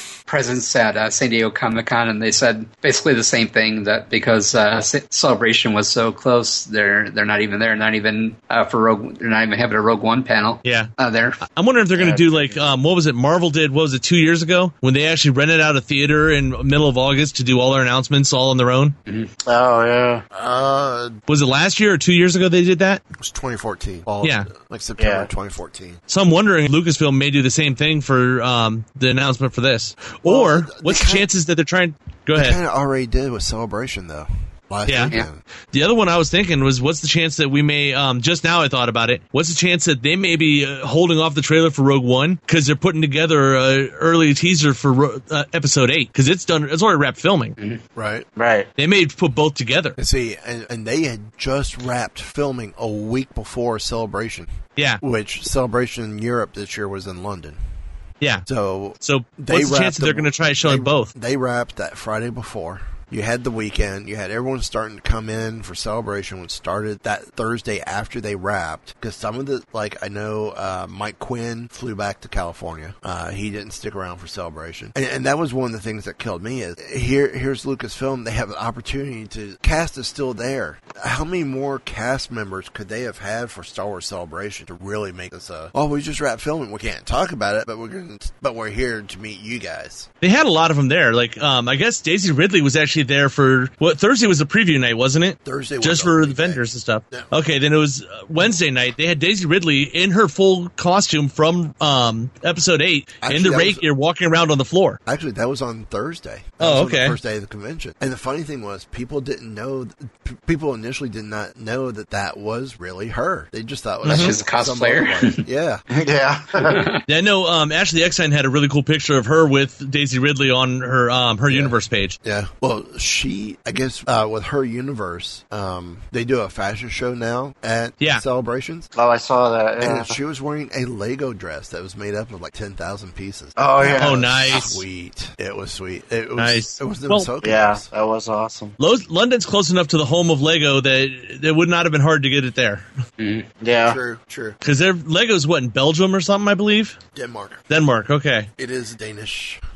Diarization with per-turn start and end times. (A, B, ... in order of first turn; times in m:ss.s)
0:00.3-0:11.4 A
0:10.6-0:10.9 B
0:11.4-0:19.0 B
0:11.9-0:12.6 C
0:19.4-0:20.3 C
0:20.3-0:21.2 D
0:21.3-0:23.0 B
0:23.2-0:26.0 D
0:24.2-0:24.5 B
0:25.0-0:25.3 C
0:26.1-0:32.6 B
0:30.2-0:31.3 D
0:32.3-0:35.4 D
0:34.9-0:35.1 B
0:35.7-0:47.6 B
0:48.0-0:48.3 D
0:48.4-0:48.7 C
0:48.8-0:50.0 B
0:50.0-0:57.6 D
0:58.4-1:30.1 D
0:59.0-1:01.1 B
1:30.2-1:45.0 B
1:35.4-1:37.3 D
1:43.2-1:43.8 D
1:45.0-1:55.8 D
1:46.6-1:47.2 B
1:54.0-1:54.3 B
1:54.1-1:55.4 A
1:55.9-1:56.9 C
1:56.6-1:57.0 A
1:57.1-2:02.2 B
2:01.5-2:08.9 D
2:08.9-2:10.2 C
2:09.8-2:17.9 D
2:13.6-2:14.2 C
2:14.0-2:14.8 B
2:16.4-2:17.3 B
2:17.4-2:18.8 C
2:18.8-2:22.8 B
2:23.2-2:23.5 A
2:23.6-2:24.0 C
2:23.8-2:24.6 D
2:24.6-2:27.0 B
2:27.1-2:27.6 D
2:27.7-2:28.5 B
2:28.6-2:29.6 D